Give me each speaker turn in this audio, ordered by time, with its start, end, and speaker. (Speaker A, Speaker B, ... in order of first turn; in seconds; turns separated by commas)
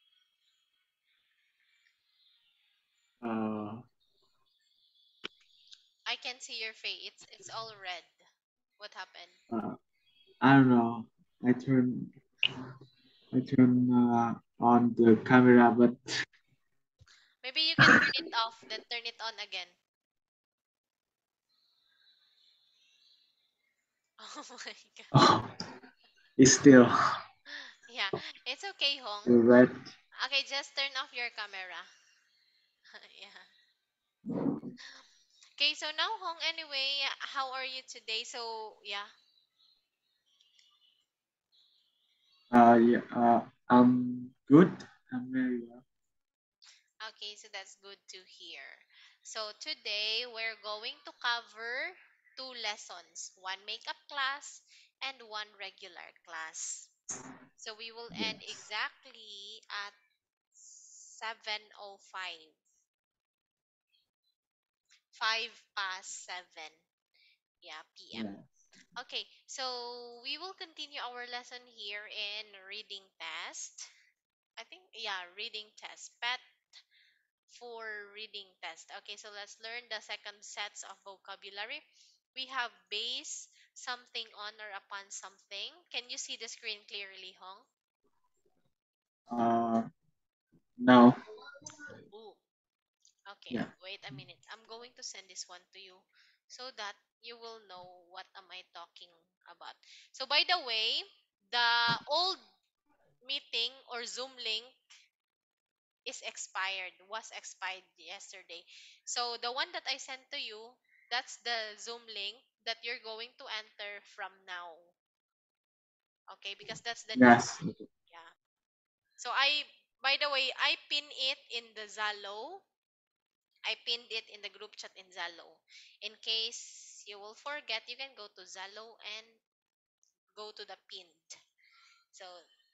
Speaker A: 3.2-3.8, Speaker B: 6.1-8.1, Speaker B: 8.8-9.4, Speaker A: 9.5-9.8, Speaker A: 10.4-12.1, Speaker A: 13.3-16.0, Speaker B: 17.4-19.7, Speaker A: 17.8-18.1, Speaker B: 24.2-25.1, Speaker A: 25.1-25.5, Speaker A: 26.4-26.9, Speaker B: 27.7-29.3, Speaker A: 29.2-29.8, Speaker B: 30.2-31.9, Speaker B: 32.9-33.5, Speaker B: 35.6-39.1, Speaker A: 42.5-45.8, Speaker B: 47.0-56.9, Speaker B: 57.6-60.0, Speaker A: 58.1-58.6, Speaker B: 60.5-62.6, Speaker B: 65.1-66.8, Speaker B: 67.6-68.3, Speaker A: 68.1-68.6, Speaker B: 69.0-73.9, Speaker B: 74.6-76.4, Speaker B: 77.5-81.8, Speaker B: 82.3-87.7, Speaker A: 89.3-89.9, Speaker A: 90.8-91.2, Speaker B: 92.1-92.4, Speaker B: 93.3-102.4, Speaker B: 103.2-104.8, Speaker B: 106.0-115.0, Speaker B: 116.3-117.4, Speaker A: 117.1-117.9, Speaker B: 119.2-122.6, Speaker B: 123.7-129.4, Speaker B: 130.3-131.3, Speaker B: 132.1-132.4